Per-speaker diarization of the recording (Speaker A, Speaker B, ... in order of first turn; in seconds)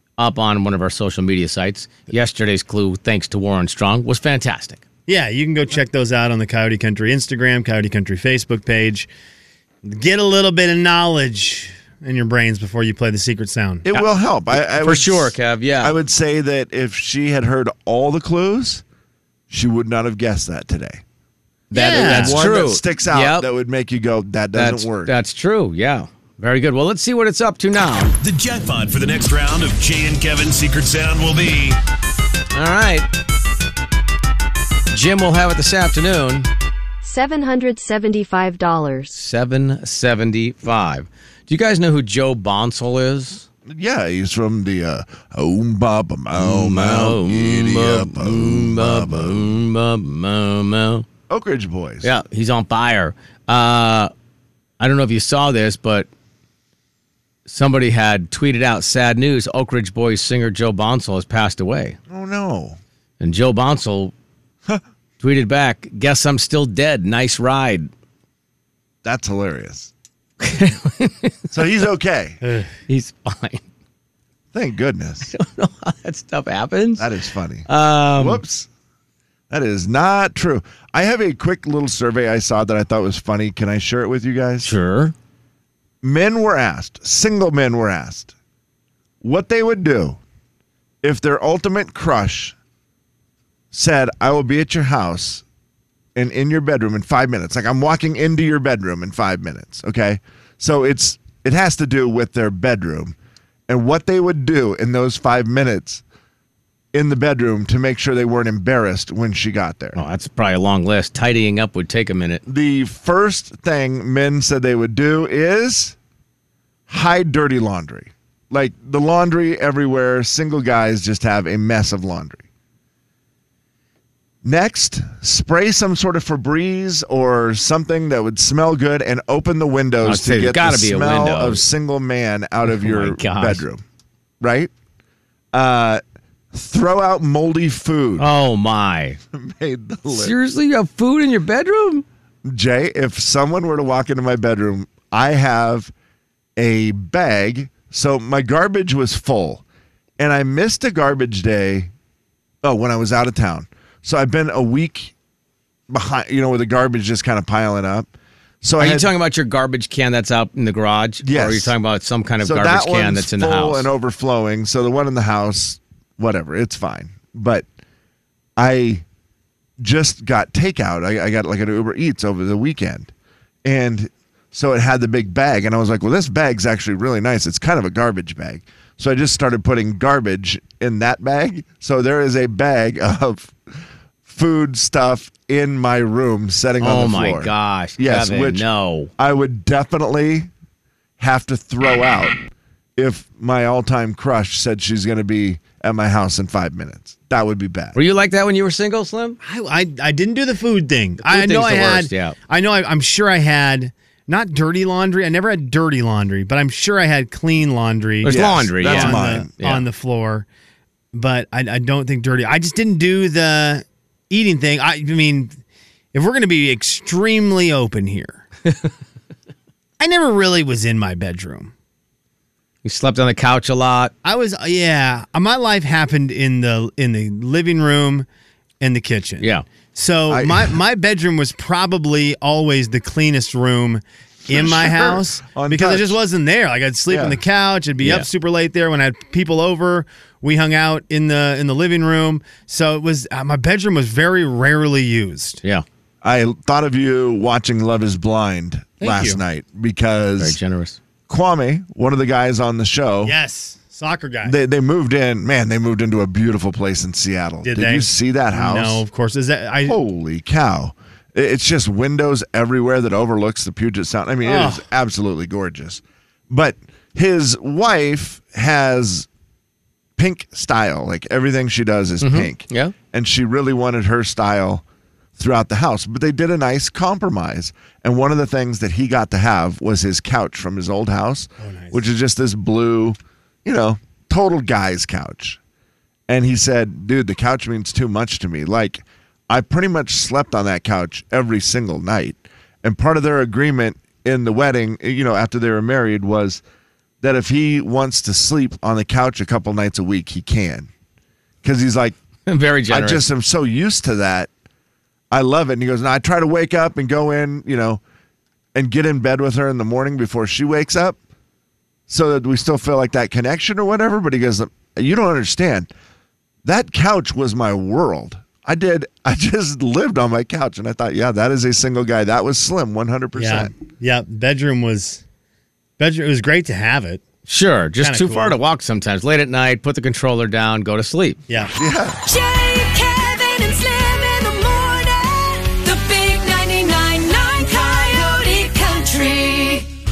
Speaker A: 0.2-4.8, 13.9-16.0, 21.7-23.5, 24.5-28.1, 32.5-33.1, 34.9-36.5, 39.1-43.5, 46.4-51.0, 52.0-54.1, 54.8-56.1, 57.5-62.0, 63.2-64.1, 65.2-67.9, 70.4-71.5, 72.9-73.6, 75.3-77.1, 77.7-78.4, 84.6-85.1, 110.0-112.4, 130.0-131.6, 132.7-133.6, 138.2-139.2, 140.1-142.0, 158.8-163.9, 186.8-189.1, 197.9-199.4, 201.2-202.4, 208.2-209.9, 222.8-224.1, 238.0-238.3, 250.4-251.0, 272.2-272.9, 302.5-303.2, 327.5-331.4
Speaker B: 5.1-9.1, 9.8-13.9, 21.7-22.4, 72.4-72.7, 199.4-210.5, 211.1-215.6, 216.1-218.5, 220.0-221.7, 224.2-228.2, 228.8-245.6, 249.0-249.4, 253.2-254.6, 257.6-260.0, 264.4-264.8, 281.6-282.0, 323.4-325.2, 326.0-327.2, 328.0-328.6
Speaker C: 13.8-18.8, 19.5-21.0, 21.8-25.1, 43.7-49.6, 51.3-52.1, 62.1-62.8, 69.0-69.9, 71.5-72.4, 74.5-75.3, 77.0-78.7, 79.5-84.7, 86.0-88.3, 89.2-90.2, 91.0-92.5, 93.7-95.4, 96.1-103.2, 103.7-106.0, 106.9-110.0, 112.5-116.0, 116.9-122.4, 124.4-133.8, 134.4-134.7, 135.5-136.0, 136.5-138.3, 139.3-140.3, 142.4-145.9, 146.6-149.6, 150.2-151.9, 152.6-155.1, 155.9-158.1, 158.6-159.1, 161.2-161.8, 162.4-167.7, 168.6-169.0, 169.8-173.1, 173.6-183.5, 184.2-188.7, 189.2-190.5, 191.2-192.4, 193.0-198.0, 208.3-209.5, 230.3-230.8, 234.5-236.2, 237.1-237.4, 246.2-250.6, 251.3-253.3, 254.4-259.0, 259.9-269.3, 270.2-274.8, 275.4-285.6, 286.3-296.6, 297.2-300.9, 301.6-302.1, 302.9-304.5, 305.3-308.0, 308.8-311.2, 312.1-315.9, 316.6-323.7, 331.8-332.2
Speaker D: 28.2-31.8
Speaker E: 37.0-39.1, 332.2-339.9